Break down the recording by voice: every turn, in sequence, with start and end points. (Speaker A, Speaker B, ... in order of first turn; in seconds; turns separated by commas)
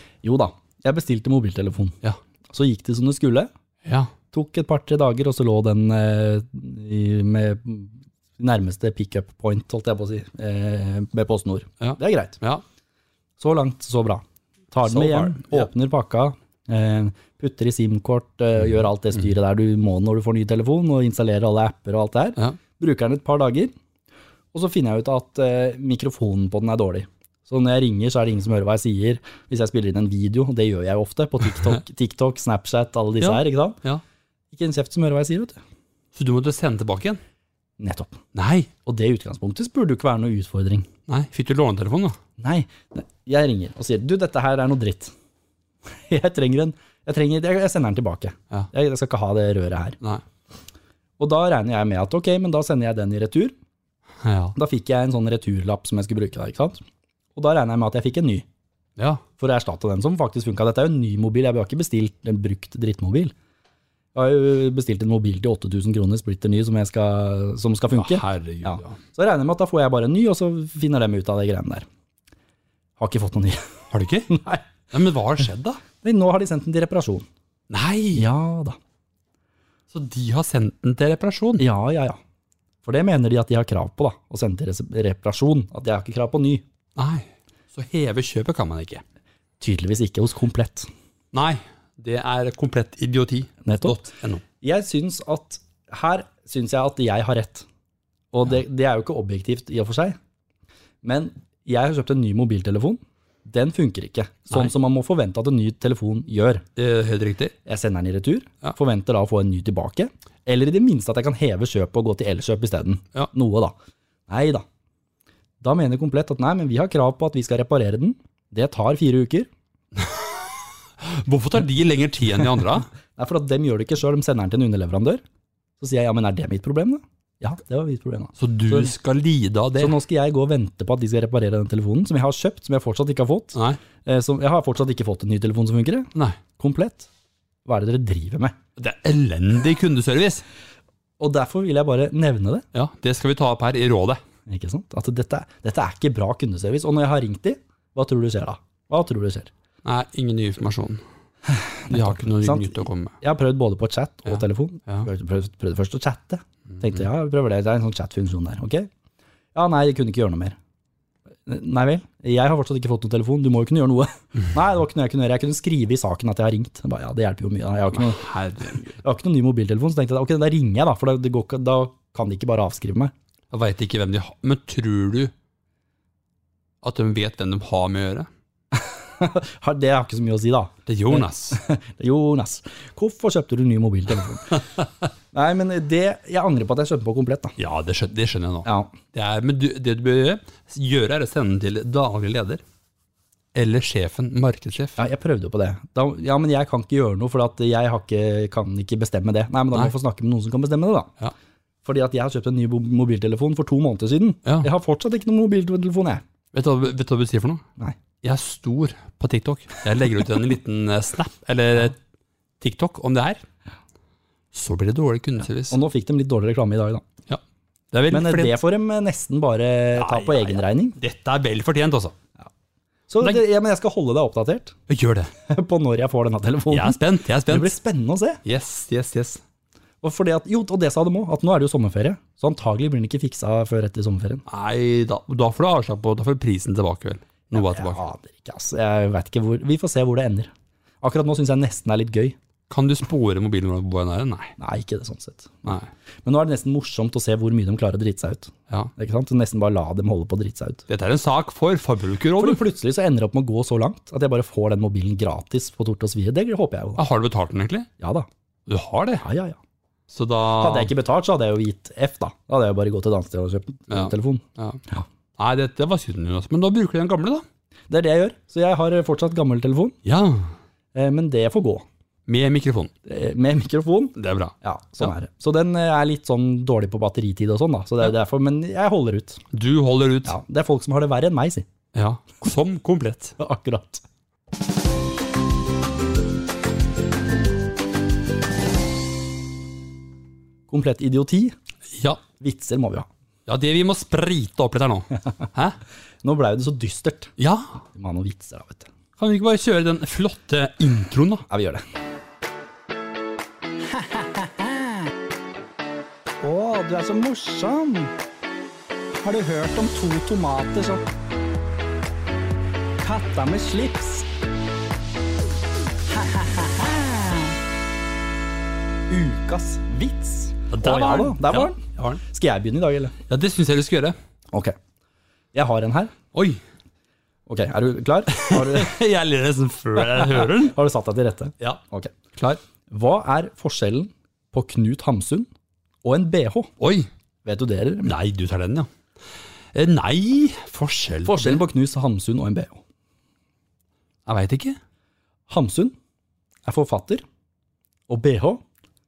Speaker A: 0.2-2.0, Speaker A: 2.5-3.5, Speaker B: 3.9-4.1, Speaker A: 4.3-12.4, Speaker B: 11.8-12.6, Speaker A: 13.4-23.7, Speaker B: 14.8-15.7, Speaker A: 24.5-33.8, Speaker B: 33.2-34.0, Speaker A: 34.5-35.6, Speaker B: 36.1-37.2, Speaker A: 37.8-38.2, Speaker B: 38.3-38.7, Speaker A: 38.9-40.9, Speaker B: 41.1-42.2, Speaker A: 42.4-45.1, Speaker A: 46.1-50.0, Speaker A: 51.2-53.5, Speaker B: 54.2-54.5, Speaker A: 54.5-56.8, Speaker A: 57.4-58.5, Speaker A: 59.4-63.3, Speaker A: 64.1-71.9, Speaker B: 67.9-69.0, Speaker A: 73.0-73.7, Speaker B: 73.9-74.3, Speaker A: 74.3-74.7, Speaker B: 74.9-75.8, Speaker A: 76.0-77.3, Speaker B: 77.7-78.3, Speaker A: 78.2-78.8, Speaker B: 79.9-81.6, Speaker A: 81.6-82.2, Speaker A: 82.8-86.6, Speaker B: 87.0-89.0, Speaker A: 89.6-90.9, Speaker B: 91.3-94.4, Speaker A: 93.6-94.0, Speaker A: 94.6-97.7, Speaker A: 98.3-100.2, Speaker A: 101.0-106.7, Speaker B: 106.8-107.5, Speaker A: 107.7-113.8, Speaker A: 114.3-114.7, Speaker A: 115.6-119.5, Speaker B: 120.0-120.4, Speaker B: 121.0-122.9, Speaker A: 123.1-125.2, Speaker A: 125.8-128.9, Speaker B: 128.4-130.0, Speaker A: 129.8-137.1, Speaker A: 137.7-138.6, Speaker B: 138.8-140.4, Speaker A: 141.2-142.7, Speaker B: 142.7-144.2, Speaker A: 144.5-149.5, Speaker B: 149.8-151.0, Speaker A: 151.5-158.9, Speaker B: 151.9-153.1, Speaker B: 154.3-155.1, Speaker A: 159.6-160.6, Speaker A: 161.5-173.1, Speaker B: 167.9-168.8, Speaker B: 173.5-175.3, Speaker B: 176.8-178.3, Speaker A: 178.7-184.7, Speaker B: 180.9-181.6, Speaker A: 185.3-187.5, Speaker B: 187.6-192.6, Speaker A: 188.7-188.9, Speaker B: 193.6-195.0, Speaker A: 195.0-201.1, Speaker A: 201.8-206.2, Speaker B: 206.5-207.6, Speaker B: 208.2-212.0, Speaker B: 212.6-213.4, Speaker B: 214.5-215.8, Speaker A: 215.7-217.1, Speaker B: 217.9-218.6, Speaker A: 218.1-221.0, Speaker B: 219.9-222.1, Speaker A: 223.1-224.8, Speaker B: 224.9-225.3, Speaker A: 225.5-228.4, Speaker B: 226.7-227.8, Speaker B: 228.4-229.4, Speaker A: 230.0-234.4, Speaker B: 234.5-238.0, Speaker A: 237.5-240.5, Speaker A: 241.0-242.4, Speaker B: 242.7-244.6, Speaker A: 244.6-250.8, Speaker B: 250.9-252.6, Speaker A: 252.4-257.0, Speaker B: 257.0-257.9, Speaker A: 258.0-258.3, Speaker B: 258.7-259.3, Speaker A: 259.2-259.6, Speaker B: 260.1-260.9, Speaker A: 260.6-265.1, Speaker B: 263.9-264.8, Speaker B: 265.4-267.4, Speaker A: 267.9-270.0, Speaker B: 270.1-270.6, Speaker A: 270.9-271.9, Speaker B: 272.3-272.9, Speaker A: 273.1-279.4, Speaker B: 274.2-275.1, Speaker B: 279.5-280.4, Speaker A: 280.3-281.7, Speaker B: 281.9-283.4, Speaker A: 283.4-284.0, Speaker A: 290.7-291.5, Speaker B: 291.9-292.2, Speaker A: 292.4-293.1, Speaker B: 293.5-295.8, Speaker A: 296.2-297.3, Speaker B: 297.4-297.8, Speaker A: 297.9-298.9, Speaker B: 299.2-301.5, Speaker A: 301.5-301.8, Speaker A: 303.9-305.0, Speaker A: 306.4-308.1, Speaker A: 309.2-311.0, Speaker A: 313.0-314.3, Speaker A: 316.1-317.6, Speaker A: 319.1-323.1, Speaker B: 320.7-322.2, Speaker B: 323.3-324.2, Speaker A: 325.5-326.1, Speaker B: 326.3-326.6, Speaker A: 327.5-329.0, Speaker B: 328.3-330.8, Speaker A: 330.0-332.1, Speaker A: 332.9-335.5, Speaker A: 336.1-336.7, Speaker B: 336.8-337.1, Speaker A: 337.4-338.1, Speaker B: 338.1-338.9, Speaker B: 339.7-341.6, Speaker A: 341.2-342.8, Speaker B: 344.3-344.8, Speaker A: 345.5-345.9, Speaker A: 346.7-347.2, Speaker A: 348.1-348.6